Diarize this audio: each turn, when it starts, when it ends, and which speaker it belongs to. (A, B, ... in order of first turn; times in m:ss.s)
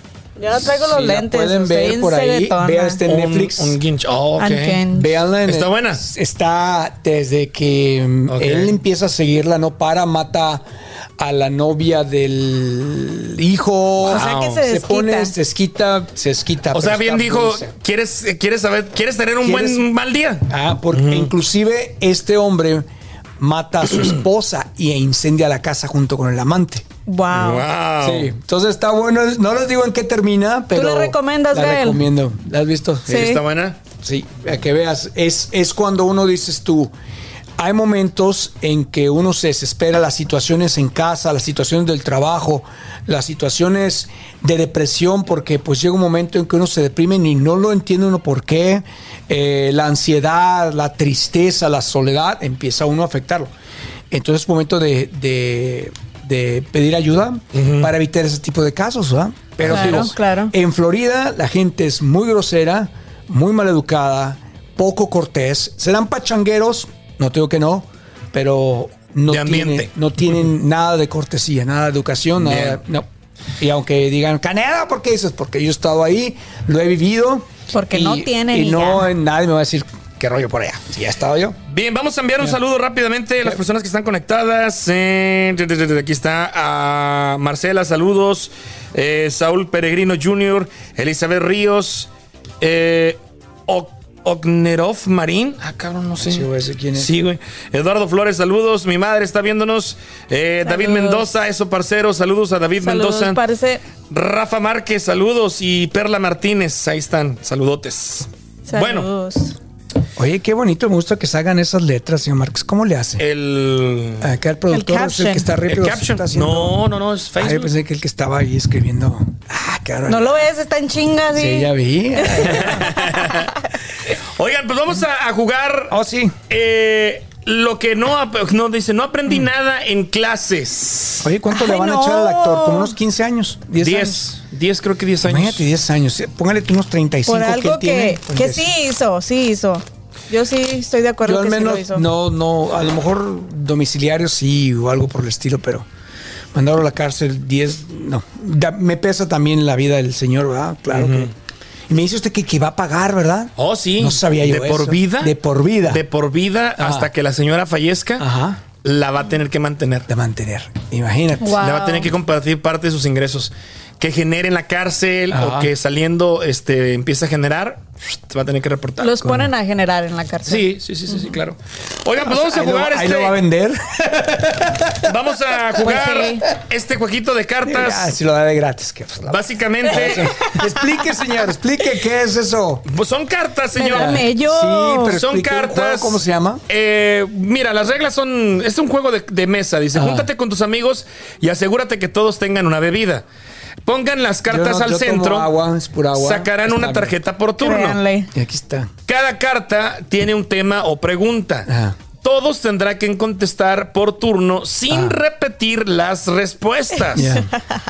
0:00.4-0:03.0 A
0:00.7-0:03.8 B
0:03.0-0:04.8 C
0:04.4-0:05.2 A
0:04.9-0:10.6 B
0:05.4-0:06.0 C
0:08.3-0:08.7 C
0:11.2-0:17.7 B
0:14.0-0:15.3 A
0:14.0-0:14.6 C
0:16.7-0:21.3 C
0:19.4-0:19.8 B
0:20.5-0:22.8 B
0:23.4-0:26.8 B
0:27.1-0:27.7 A
0:27.3-0:28.3 C
0:28.0-0:33.3 B
0:30.7-0:32.0 A
0:33.1-0:33.4 A
0:33.1-0:33.8 C
0:34.0-0:36.9 B
0:37.6-0:53.5 B
0:54.1-1:13.1 B
0:57.5-0:57.9 C
0:59.6-1:00.5 A
0:59.7-1:00.0 C
1:09.3-1:09.9 C
1:12.4-1:12.8 C
1:13.6-1:21.6 B
1:17.7-1:19.1 A
1:21.7-1:32.1 C
1:32.6-1:43.4 C
1:36.2-1:37.1 B
1:40.6-1:41.3 A
1:42.8-1:43.8 A
1:44.1-1:49.1 C
1:48.7-1:49.6 A
1:50.2-1:53.2 B
1:53.2-1:54.3 C
1:54.2-1:56.8 B
1:54.7-1:55.5 A
1:55.7-1:57.7 C
1:57.4-2:00.4 B
2:00.1-2:03.5 A
2:01.3-2:02.9 B
2:02.5-2:03.5 C
2:04.2-2:06.0 C
2:05.9-2:06.4 B
2:06.5-2:11.3 C
2:11.2-2:14.2 B
2:11.5-2:12.9 A
2:13.8-2:15.6 C
2:15.2-2:18.7 B
2:17.2-2:22.0 A
2:21.2-2:25.9 B
2:26.5-2:31.3 B
2:30.9-2:31.3 C
2:31.9-2:36.0 B
2:33.6-2:35.4 C
2:35.9-2:38.3 C
2:36.8-2:37.1 B
2:38.2-2:38.6 B
2:38.8-2:40.1 C
2:40.1-2:41.6 B
2:41.4-2:42.1 A
2:41.6-2:49.2 C
2:45.3-2:45.7 B
2:49.0-2:51.2 A
2:49.2-2:49.5 B
2:50.4-2:53.4 C
2:52.2-2:55.1 B
2:54.9-2:58.1 C
2:55.8-2:56.4 A
2:57.6-3:02.8 B
2:59.3-3:00.4 C
3:02.9-3:04.3 C
3:03.8-3:05.2 A
3:03.8-3:06.6 B
3:05.0-3:13.2 C
3:09.9-3:10.3 B
3:13.8-3:15.5 C
3:14.5-3:17.2 B
3:16.1-3:18.0 C
3:17.6-3:18.3 A
3:18.3-3:18.9 B
3:19.1-3:21.7 C
3:21.7-3:22.0 B
3:22.2-3:27.4 C
3:24.9-3:25.2 B
3:27.1-3:27.5 B